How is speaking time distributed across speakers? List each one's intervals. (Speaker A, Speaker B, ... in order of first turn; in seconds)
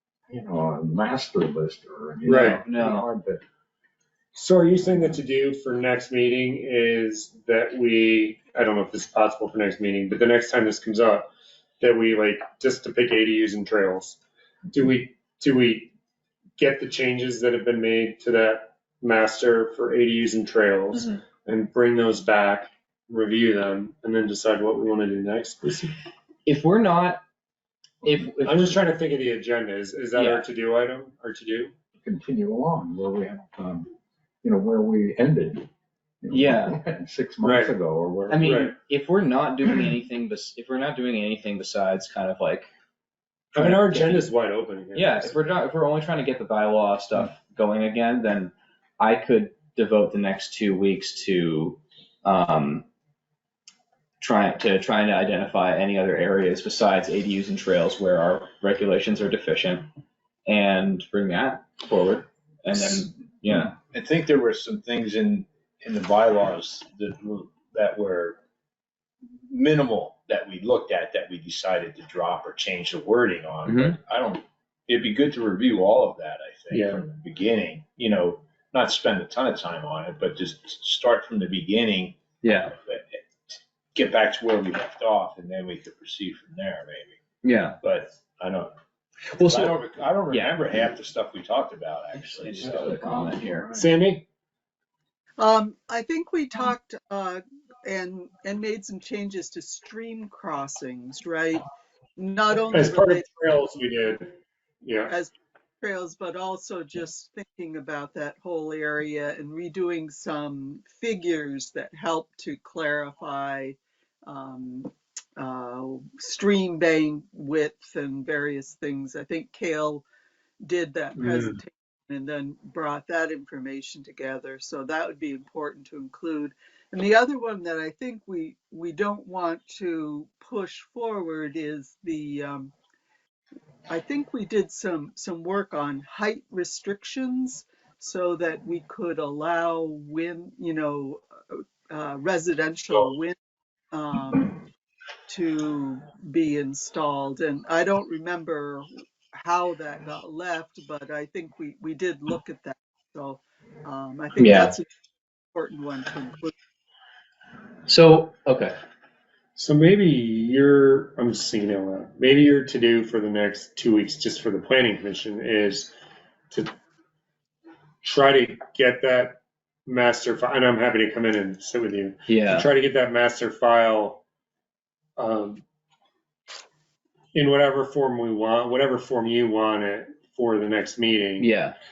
Speaker A: 0.3-3.4, 4.7-5.2, 32.0-33.9, 34.4-35.7, 36.2-38.5, 92.8-93.9
Speaker B: 2.2-2.6, 4.3-14.2, 14.7-15.9, 16.6-25.9, 28.4-31.7, 37.4-37.7, 38.4-38.7, 43.5-45.4, 76.7-77.0, 93.7-94.3, 102.7-104.3, 104.8-105.1, 121.2-121.6, 159.6-165.9, 168.0-174.2, 175.2-175.6, 177.3-181.5
Speaker C: 2.5-3.1, 26.5-27.2, 28.0-28.8, 30.2-30.5, 36.3-36.8, 38.3-42.7, 43.5-44.3, 44.9-52.9, 54.2-59.9, 60.5-63.8, 73.7-74.0, 82.4-82.7, 87.4-87.8, 89.3-89.8, 90.3-90.6, 92.1-93.8, 154.4-154.7, 157.9-158.8, 172.3-172.7, 181.4-181.8
Speaker D: 63.6-68.4, 69.5-87.2, 87.8-88.7, 89.4-93.0
Speaker E: 95.4-101.6, 102.2-103.3, 105.1-120.0, 120.6-132.7, 133.9-143.3, 143.9-144.6, 145.3-154.9, 155.5-156.5